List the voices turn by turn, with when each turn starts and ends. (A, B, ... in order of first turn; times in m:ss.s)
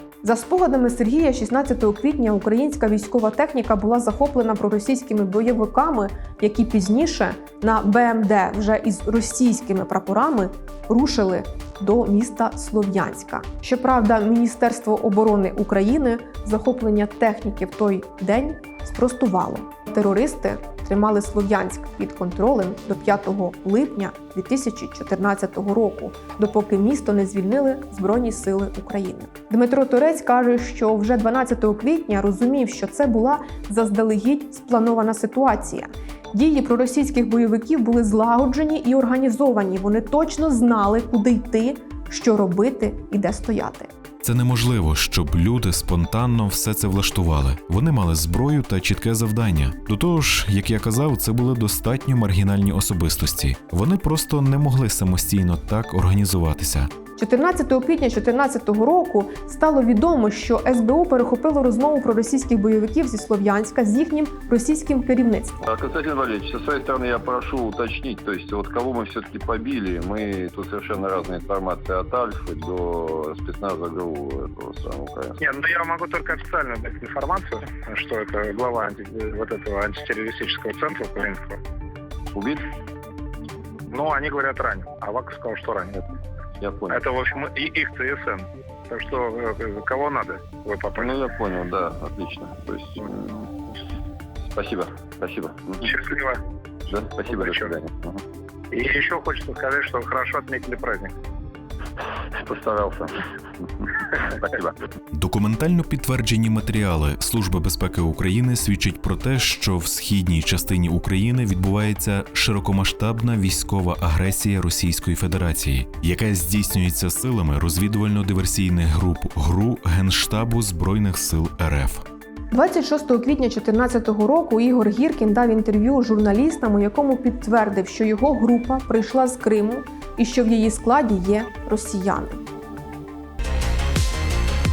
0:00.2-0:43.9 A
0:44.2-0:56.9 B
0:57.2-1:05.6 A
1:05.7-1:15.4 C
1:15.4-1:21.6 D
1:22.3-1:22.6 C
1:23.9-1:26.0 D
1:26.6-1:27.1 C
1:26.9-1:31.2 D
1:31.0-1:33.5 C
1:34.5-1:36.0 C
1:35.9-1:36.4 D
1:36.9-1:38.2 C
1:37.3-1:37.7 D
1:38.7-1:41.1 D
1:42.4-1:44.8 C
1:45.1-2:02.0 B
2:02.5-2:12.4 A